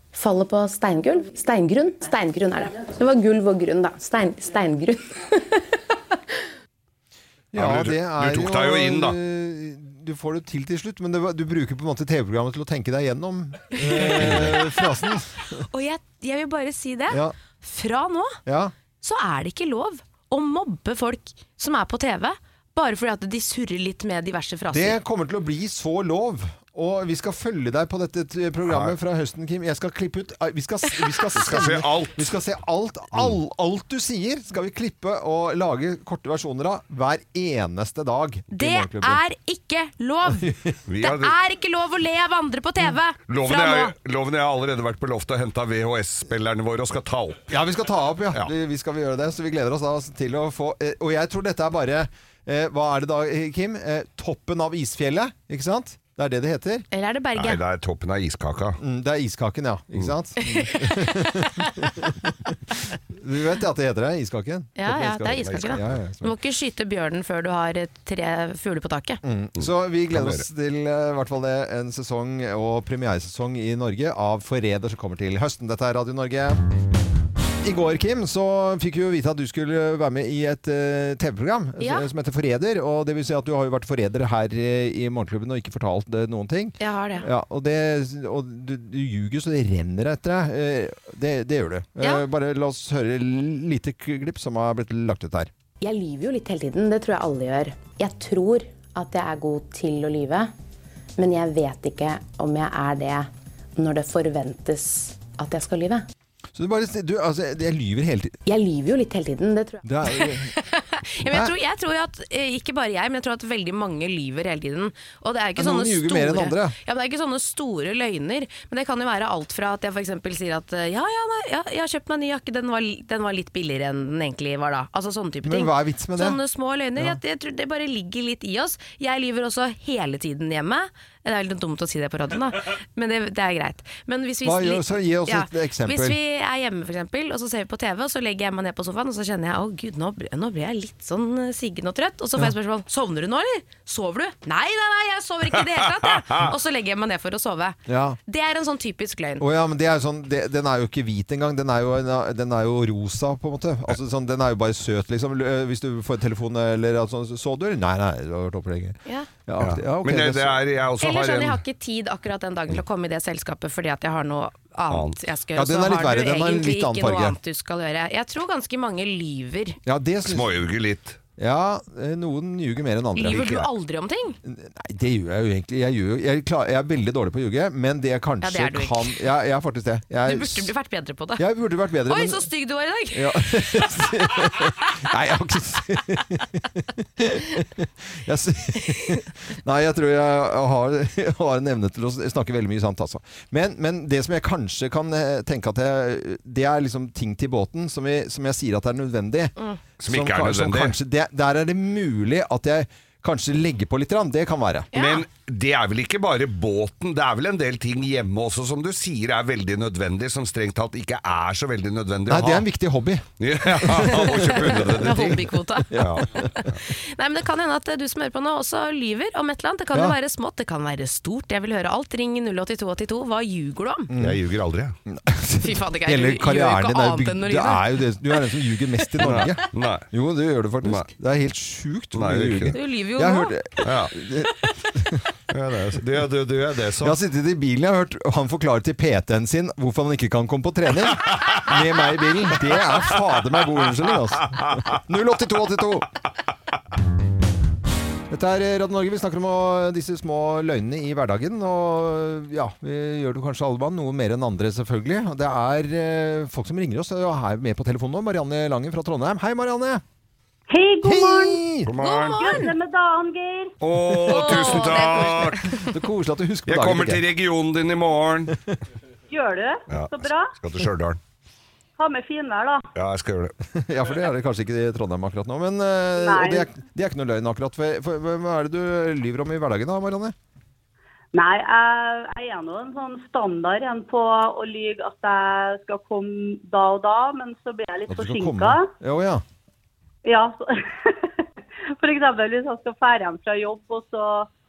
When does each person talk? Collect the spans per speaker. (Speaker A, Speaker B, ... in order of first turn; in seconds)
Speaker A: 0.1-4.9, 95.8-100.5, 101.2-103.2, 103.8-106.0, 108.5-109.8
Speaker B: 1.1-3.0, 13.8-14.8, 15.6-18.4, 19.0-25.0, 38.5-43.9, 56.9-57.6, 60.4-62.0, 64.8-69.2, 81.8-82.1, 86.8-87.3, 110.1-149.4, 161.0-169.8, 173.2-174.4, 178.4-179.2, 180.2-181.4, 182.1-185.1, 204.9-205.2, 214.1-224.1, 225.6-228.0, 232.7-233.8, 262.0-262.7, 264.2-265.9
Speaker C: 7.5-15.6, 17.1-17.3, 18.4-18.7, 24.7-39.2, 40.3-40.8, 47.5-56.9, 58.8-66.3, 69.2-76.6, 77.6-95.5, 106.5-108.4, 109.8-110.5, 111.2-111.5, 115.6-116.8, 125.4-126.4, 134.4-136.2, 147.9-148.2, 149.4-160.6, 165.5-167.4, 169.8-170.5, 171.4-173.5, 174.4-180.7, 181.4-182.5, 183.1-199.5, 200.0-204.9, 212.3-213.2, 213.8-215.3, 215.9-216.5, 224.1-224.4, 225.1-235.2, 237.0-246.1, 248.3-260.0, 261.0-261.9, 265.8-267.2, 273.7-280.3, 288.1-289.4
Speaker D: 7.5-9.2, 14.1-14.6, 28.6-28.9, 31.3-32.3, 40.9-41.3, 43.3-47.5, 57.3-58.8, 65.2-66.0, 69.6-70.4, 159.6-161.6, 164.9-165.2, 170.2-171.2, 173.3-173.7, 200.0-200.9, 204.9-212.7, 213.4-216.8, 224.2-224.9, 229.2-230.1, 232.1-232.8, 233.8-234.1, 235.5-237.2, 261.9-262.5, 263.8-265.7, 266.7-268.5, 269.9-271.2, 272.9-273.5
Speaker E: 260.7-261.6, 262.4-263.8, 269.3-270.5, 272.0-272.8, 276.2-276.7, 281.3-288.9, 290.2-291.4, 292.0-294.5